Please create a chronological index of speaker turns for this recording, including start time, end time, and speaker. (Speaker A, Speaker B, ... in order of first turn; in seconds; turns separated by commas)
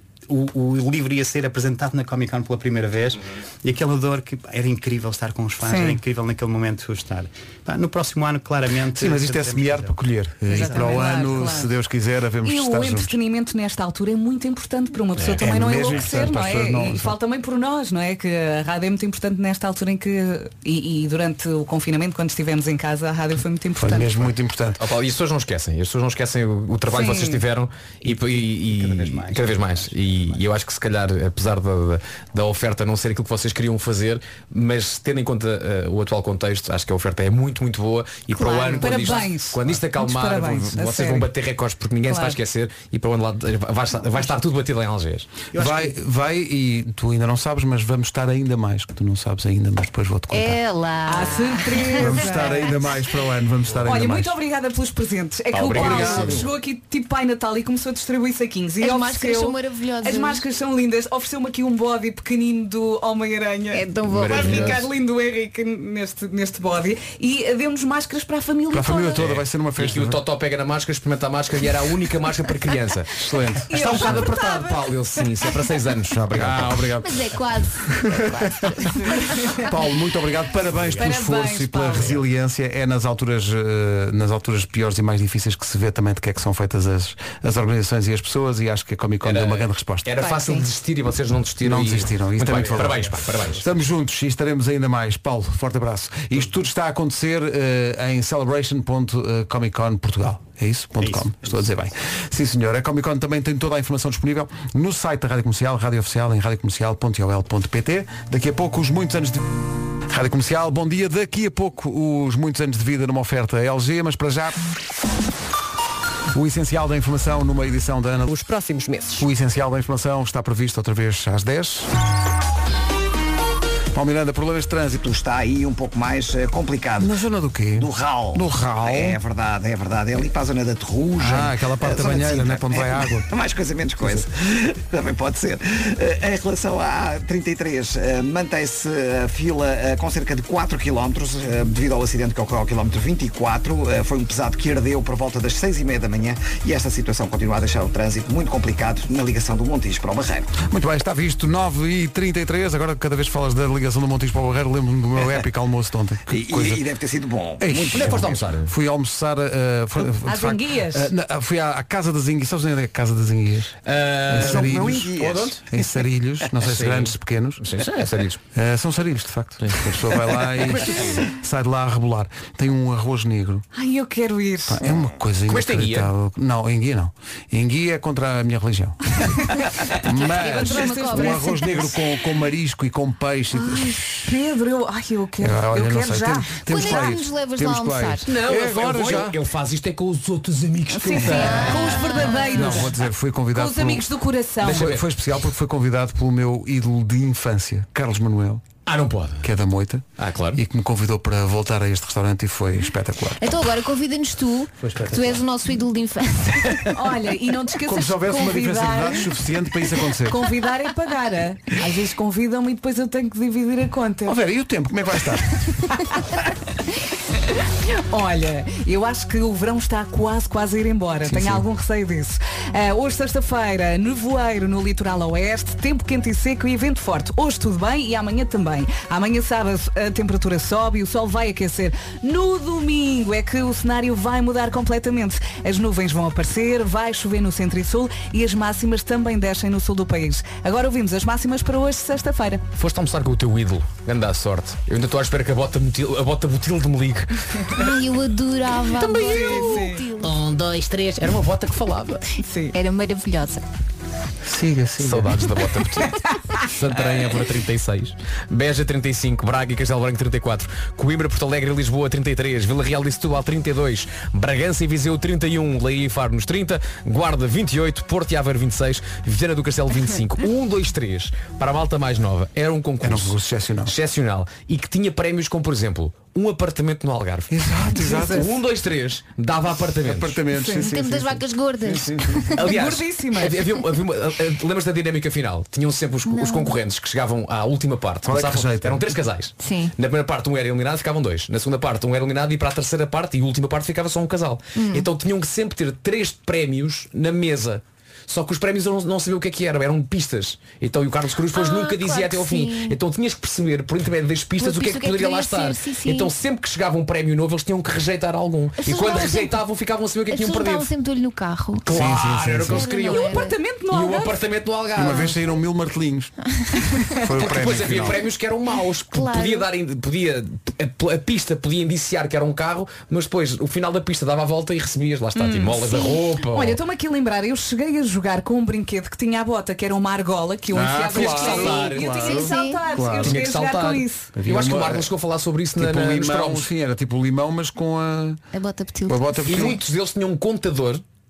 Speaker A: 0.3-10.0, Speaker B: 5.6-6.0, Speaker C: 8.9-13.2, Speaker B: 10.5-11.7, Speaker B: 12.4-24.3, Speaker C: 15.4-17.2, Speaker C: 23.8-24.8, Speaker D: 24.8-45.3, Speaker B: 26.9-27.4, Speaker A: 28.0-30.5, Speaker B: 38.3-41.3, Speaker B: 42.1-42.4, Speaker A: 45.5-45.9, Speaker C: 45.5-50.6, Speaker E: 50.3-52.4, Speaker B: 51.1-52.7, Speaker C: 52.0-54.4, Speaker B: 53.8-69.2, Speaker D: 55.5-56.5, Speaker C: 55.8-56.4, Speaker E: 58.8-60.4, Speaker E: 63.7-64.8, Speaker D: 64.1-64.9, Speaker C: 68.7-70.2, Speaker D: 69.2-73.2, Speaker C: 73.2-74.2, Speaker B: 73.7-75.2, Speaker D: 73.7-76.8, Speaker C: 76.1-78.9, Speaker E: 77.0-78.9, Speaker B: 78.8-79.7, Speaker C: 79.6-90.1, Speaker A: 80.7-81.0, Speaker B: 81.0-82.2, Speaker D: 89.2-93.7, Speaker E: 90.2-90.7, Speaker C: 91.6-114.6, Speaker A: 101.0-101.7, Speaker C: 116.3-118.4, Speaker C: 119.2-121.9, Speaker C: 123.9-125.0, Speaker F: 125.0-127.1, Speaker C: 127.0-129.2, Speaker F: 127.8-150.5, Speaker C: 131.2-133.3, Speaker C: 134.0-134.3, Speaker C: 150.6-156.8, Speaker F: 156.3-158.4, Speaker C: 157.6-165.1, Speaker D: 157.7-158.7, Speaker B: 160.2-161.1, Speaker D: 163.8-165.6, Speaker F: 164.3-165.6, Speaker C: 165.7-167.6, Speaker D: 166.6-168.4, Speaker C: 168.5-173.7, Speaker D: 169.6-171.3, Speaker B: 173.7-174.8, Speaker C: 174.7-179.2, Speaker D: 175.5-176.1, Speaker B: 179.4-181.9, Speaker C: 180.0-184.2, Speaker E: 180.3-181.9, Speaker B: 183.5-186.6, Speaker C: 185.4-189.4, Speaker E: 186.7-188.3, Speaker D: 188.2-192.2, Speaker B: 190.9-192.9, Speaker E: 191.2-192.7, Speaker C: 192.5-194.1, Speaker B: 193.5-194.9, Speaker D: 194.6-195.1, Speaker C: 194.6-198.7, Speaker D: 198.9-199.5, Speaker C: 199.4-203.4, Speaker D: 200.2-200.6, Speaker E: 203.4-206.9, Speaker B: 206.9-209.3, Speaker C: 207.8-210.5, Speaker B: 210.2-214.4, Speaker C: 214.2-215.7, Speaker B: 215.9-216.2, Speaker B: 217.5-242.6, Speaker C: 221.3-221.7, Speaker D: 242.7-247.6, Speaker E: 247.7-250.4, Speaker D: 248.9-252.2, Speaker B: 249.1-250.1, Speaker B: 252.4-252.8, Speaker E: 252.7-253.6, Speaker C: 254.4-255.4, Speaker D: 255.0-280.4, Speaker B: 256.2-256.6, Speaker C: 273.0-273.9, Speaker C: 277.5-278.5, Speaker B: 278.0-278.5, Speaker C: 280.0-282.5, Speaker B: 280.5-280.8, Speaker E: 280.7-282.6, Speaker D: 282.6-310.9, Speaker B: 282.6-283.6, Speaker E: 286.3-286.8, Speaker C: 288.2-289.1, Speaker E: 289.6-289.9, Speaker E: 294.8-295.1, Speaker E: 301.5-303.0, Speaker E: 304.6-306.3, Speaker E: 308.8-309.6, Speaker E: 310.3-311.9, Speaker D: 311.8-315.4, Speaker C: 311.9-312.9, Speaker E: 312.6-313.6, Speaker B: 313.0-314.4, Speaker C: 314.9-316.4, Speaker C: 317.2-318.2, Speaker D: 317.4-326.8, Speaker E: 319.1-319.7, Speaker B: 325.4-334.3, Speaker C: 330.7-333.4, Speaker D: 330.9-332.4, Speaker E: 332.2-332.9, Speaker D: 333.2-336.7, Speaker C: 334.4-335.1, Speaker C: 335.8-338.4, Speaker E: 338.5-339.8, Speaker C: 339.1-339.8, Speaker D: 339.4-341.0